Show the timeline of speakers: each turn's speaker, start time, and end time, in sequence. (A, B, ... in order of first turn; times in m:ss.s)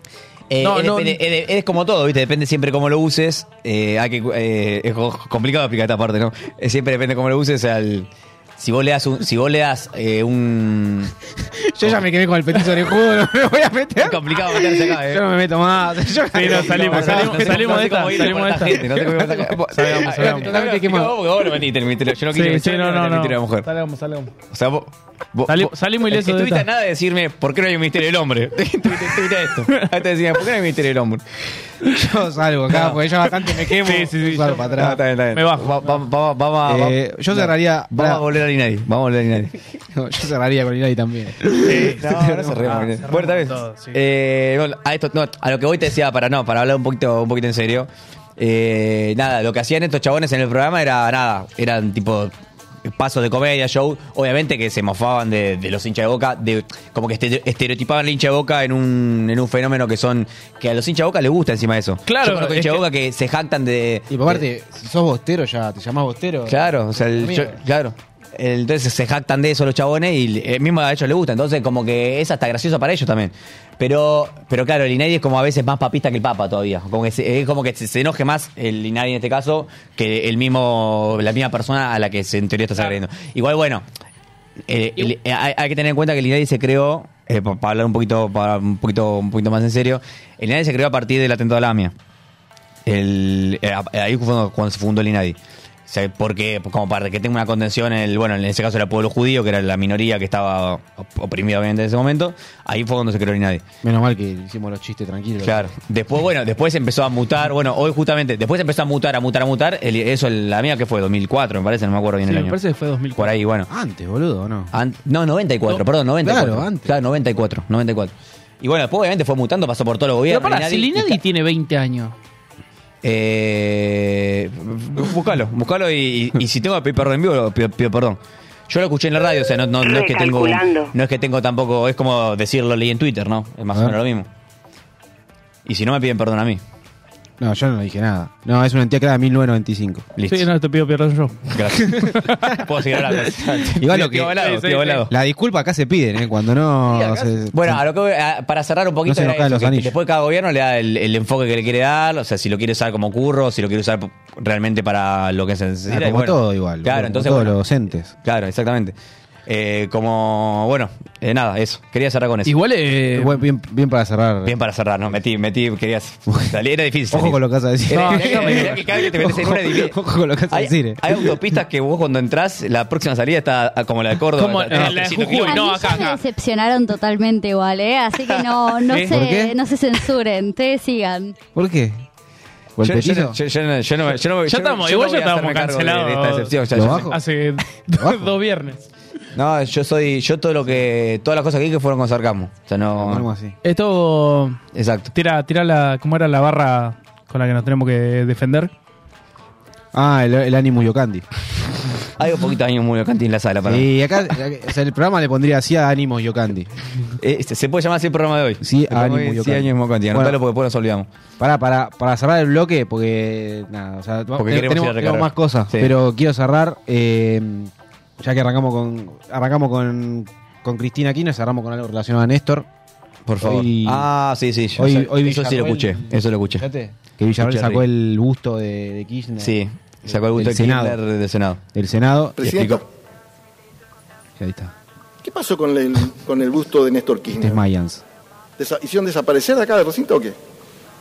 0:00.5-0:11.1 A
0:00.6-0:01.2 B
0:11.6-0:21.2 C
0:14.0-0:15.2 A
0:16.3-0:18.8 B
0:16.4-0:23.7 A
0:19.7-0:20.5 B
0:22.3-0:24.3 B
0:24.5-0:31.4 A
0:25.5-0:26.7 B
0:28.9-0:29.2 B
0:31.8-0:35.0 C
0:33.4-0:36.0 B
0:34.8-0:39.6 A
0:36.6-0:38.2 C
0:39.9-0:42.8 C
0:41.6-0:42.0 B
0:41.6-0:52.3 A
0:42.6-0:44.0 B
0:52.8-1:04.4 A
1:02.0-1:02.8 B
1:04.1-1:07.6 C
1:06.5-1:23.8 A
1:24.7-1:31.9 A
1:32.8-1:43.6 A
1:43.8-1:45.7 C
1:45.4-1:52.6 A
1:52.2-1:53.3 B
1:53.2-1:53.7 A
1:53.7-1:54.7 C
1:54.7-2:01.2 A
1:56.2-1:56.9 C
2:00.3-2:02.1 B
2:03.0-2:14.3 A
2:15.6-2:16.6 A
2:17.4-2:20.0 C
2:20.2-2:20.5 A
2:20.3-2:22.6 B
2:21.5-2:25.1 A
2:23.8-2:24.4 C
2:24.3-2:25.0 B
2:25.1-2:27.8 C
2:26.9-2:37.6 A
2:29.0-2:29.9 C
2:35.9-2:38.1 C
2:38.2-2:38.9 A
2:39.5-2:42.5 A
2:42.4-2:43.4 B
2:43.1-2:44.5 C
2:44.4-2:50.0 A
2:46.3-2:46.5 C
2:47.1-2:51.4 C
2:47.9-2:48.8 B
2:50.5-2:55.8 A
2:54.4-2:56.2 B
2:55.4-3:01.3 D
2:58.9-2:59.1 B
2:59.1-2:59.5 C
3:01.5-3:02.0 C
3:02.8-3:03.4 C
3:02.8-3:07.1 A
3:04.5-3:08.8 B
3:06.7-3:07.2 C
3:07.9-3:08.3 C
3:09.3-3:13.3 A
3:12.9-3:13.6 C
3:13.6-3:14.6 B
3:14.7-3:15.1 A
3:15.1-3:18.7 B
3:19.9-3:21.2 C
3:22.2-3:23.9 A
3:23.6-3:26.7 C
3:27.2-3:31.1 A
3:28.6-3:30.4 C
3:31.4-3:42.7 C
3:34.3-3:35.9 A
3:43.3-3:46.6 A
3:43.4-3:44.1 C
3:44.8-3:51.0 C
3:47.4-3:47.8 A
3:49.4-3:51.6 A
3:51.7-3:52.5 C
3:52.4-3:52.8 E
3:52.4-3:52.8 A
3:54.4-3:54.7 C
3:55.2-3:57.6 E
3:57.3-3:58.0 C
3:58.6-4:00.4 E